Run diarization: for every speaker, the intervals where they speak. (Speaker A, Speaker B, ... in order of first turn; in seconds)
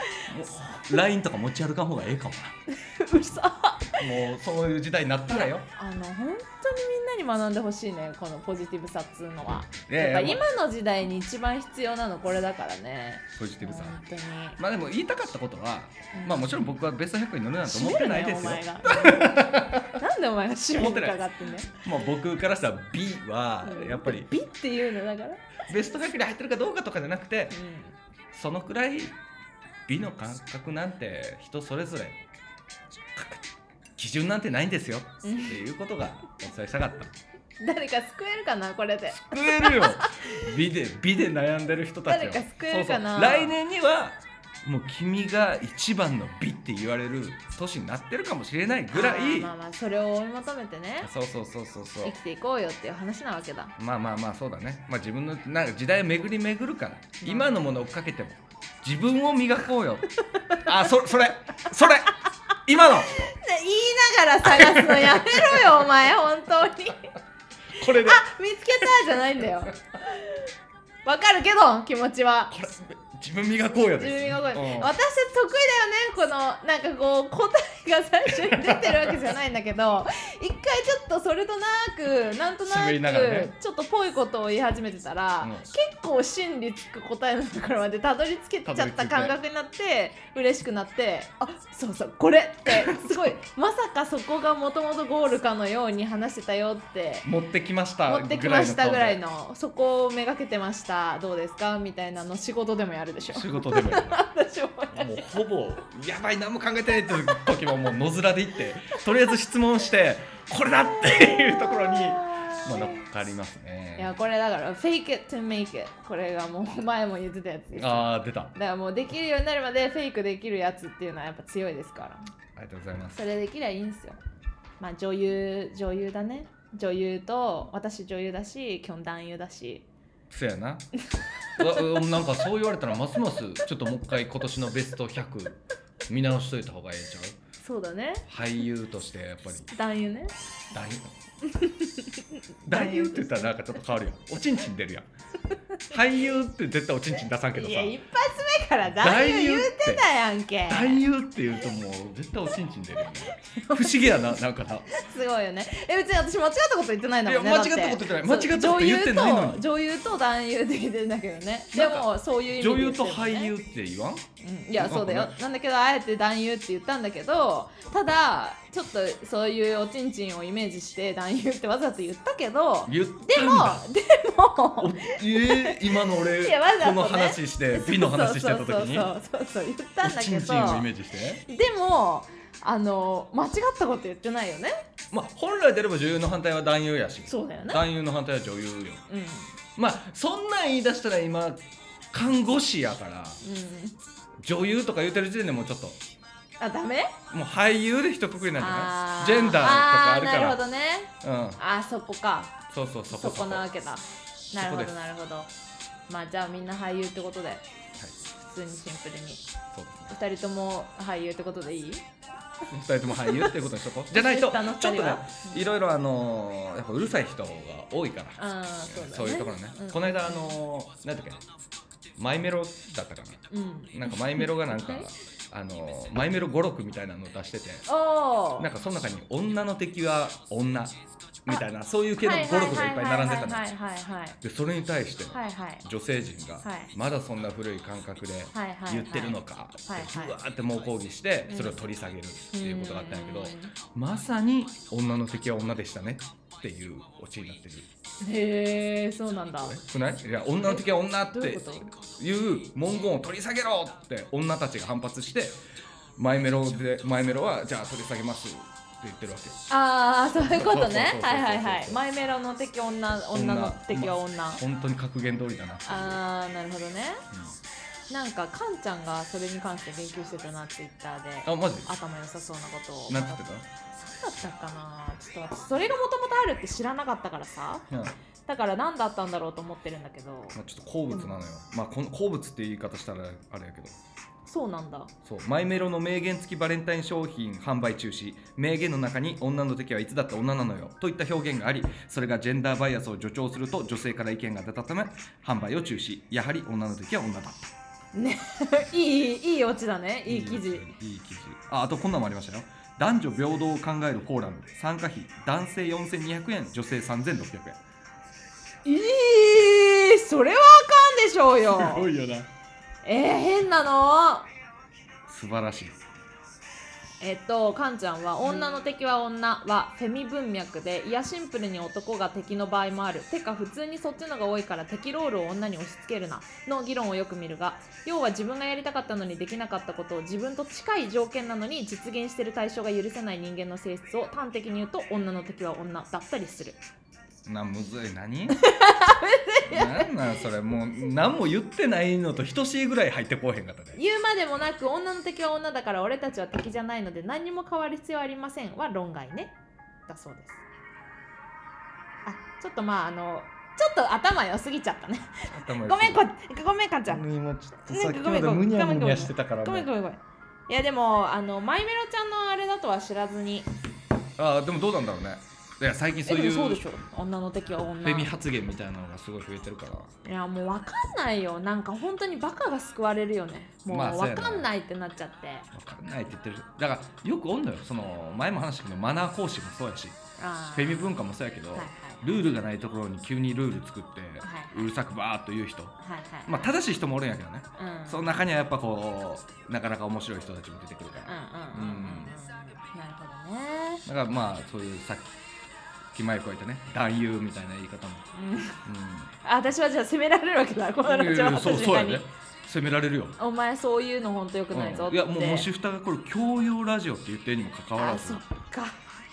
Speaker A: 0.3-2.5, 4.0-5.7, 9.9-10.4, 13.4-14.0, 14.6-20.0, 20.7-21.2, 21.8-24.3, 25.7-27.6, 28.3-29.2, 29.9-32.2, 33.1-33.4, 34.0-37.1, 39.1-49.5, 51.0-52.1, 53.8-60.1, 60.6-63.3, 64.6-65.4, 67.8-68.2, 72.5-74.9, 78.3-79.1, 82.7-83.5, 85.4-85.7, 88.7-89.4, 97.2-99.2, 103.3-104.2, 104.9-114.1, 117.8-118.5, 122.6-123.2, 130.3-130.9, 131.6-137.4, 138.3-139.7, 140.7-141.1, 142.7-145.1, 145.9-148.0, 148.9-150.1, 150.7-154.9, 157.2-159.6, 161.7-164.2, 164.8-165.4, 172.9-173.8, 174.8-179.1, 180.0-181.5, 185.1-189.0, 189.8-191.6, 192.1-193.4, 194.4-196.0, 197.3-200.6, 201.2-201.6, 202.7-203.7, 204.6-204.9, 209.7-210.1, 212.7-221.4, 222.2-223.4, 223.9-227.9, 228.6-230.9, 231.4-233.6, 234.4-247.9, 249.6-255.6, 256.2-259.6, 260.4-262.0, 263.3-266.2, 271.5-271.9, 273.1-273.6, 277.9-278.2, 280.5-284.0, 285.2-297.7, 300.3-307.8, 311.7-312.5, 315.3-316.0, 337.5-338.6, 339.7-344.0, 355.5-356.2, 357.1-359.9, 364.4-366.8, 368.0-370.1, 373.9-374.7, 375.7-380.2, 380.8-392.4, 394.1-395.4, 396.1-398.3, 398.9-399.3, 401.0-403.4, 404.7-408.4
Speaker B: 2.8-4.0, 5.3-14.6, 16.1-16.6, 17.6-19.3, 19.9-21.8, 23.6-25.4, 27.5-28.0, 35.2-35.6, 37.6-40.3, 42.1-43.5, 48.9-51.1, 52.0-53.8, 57.2-57.6, 63.1-67.1, 67.8-70.4, 71.0-72.5, 74.0-97.3, 98.0-105.2, 111.0-113.0, 114.0-122.2, 123.2-124.2, 124.8-129.9, 131.6-131.9, 137.6-138.3, 139.7-140.3, 141.4-143.6, 147.5-151.1, 153.4-154.1, 154.9-163.6, 164.4-180.9, 181.5-184.7, 187.3-187.8, 189.1-189.5, 193.4-194.0, 196.6-197.2, 198.6-202.6, 203.1-205.5, 206.1-207.7, 208.4-209.4, 210.1-212.0, 213.1-213.6, 214.1-215.7, 218.4-220.6, 223.5-225.1, 227.9-228.7, 232.2-234.4, 235.3-235.8, 236.6-236.9, 238.5-240.4, 241.5-241.8, 242.5-243.7, 248.2-249.8, 250.6-251.9, 259.7-264.6, 265.9-267.2, 268.1-273.4, 274.0-277.8, 278.5-280.6, 284.5-285.1, 298.1-300.9, 308.9-312.1, 313.0-314.5, 317.2-336.8, 338.6-340.1, 343.9-349.6, 350.1-350.6, 352.2-357.2, 357.8-363.7, 366.3-368.3, 370.2-375.7, 380.4-381.2, 381.7-382.3, 384.4-384.9, 386.0-386.6, 387.8-388.4, 391.2-394.0, 398.3-398.8, 399.4-402.3, 403.4-405.7, 408.0-409.0